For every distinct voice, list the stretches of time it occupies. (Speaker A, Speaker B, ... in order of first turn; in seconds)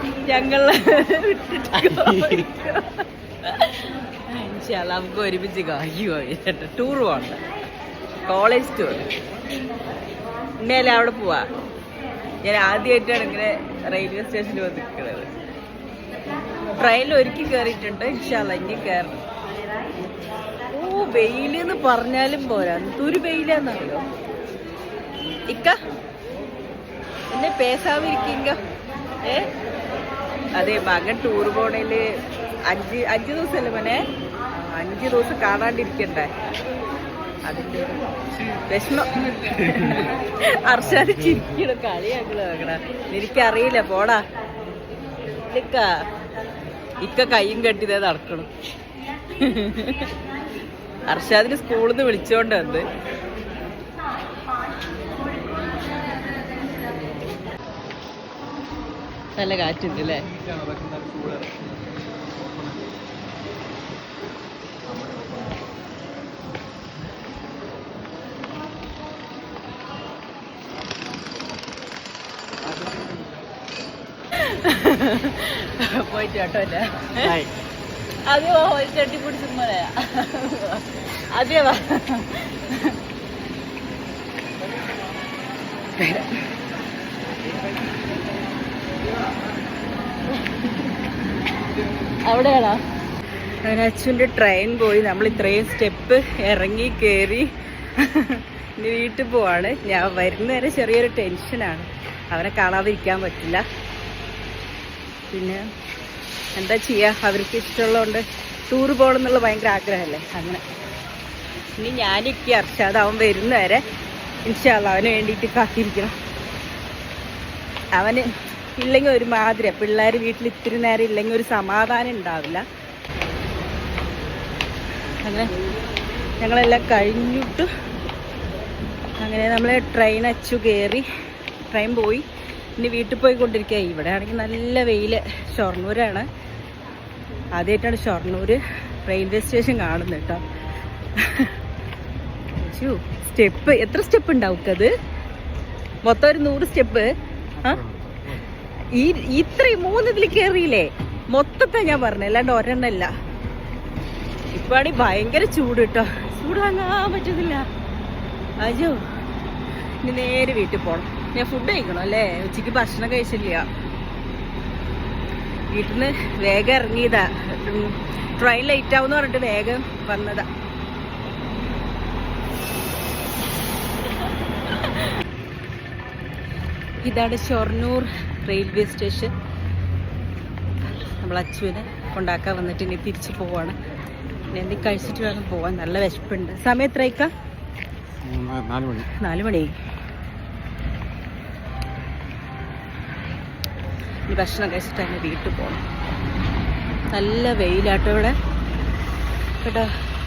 Speaker A: 0.3-7.4, 8.3-9.1, 10.6-11.5, 12.4-15.3, 16.8-19.2, 20.7-24.1, 25.5-25.8, 27.3-28.6, 29.2-29.5, 30.6-32.1, 32.7-34.0, 34.6-36.3, 37.5-44.2, 45.3-46.0, 47.0-48.5, 49.3-50.1, 51.1-52.9, 59.4-60.3, 74.3-77.4, 78.3-83.0, 86.0-86.4, 90.3-90.7, 92.3-92.8, 93.7-103.6, 105.3-105.6, 106.6-110.6, 111.7-113.8, 114.5-116.1, 118.0-122.6, 125.2-125.5, 126.4-127.7, 129.2-131.1, 131.7-132.2, 132.8-136.3, 137.6-140.4, 141.2-141.5, 142.6-144.9, 146.0-147.8, 148.9-153.1, 154.5-157.7, 158.6-159.0, 160.0-163.7, 165.7-170.5, 177.0-179.3, 181.2-183.8, 184.5-187.3, 189.0-189.7, 194.3-195.8, 197.1-198.4, 199.6-199.9
Speaker B: 60.7-61.5, 77.2-77.5, 147.7-148.4, 188.2-189.1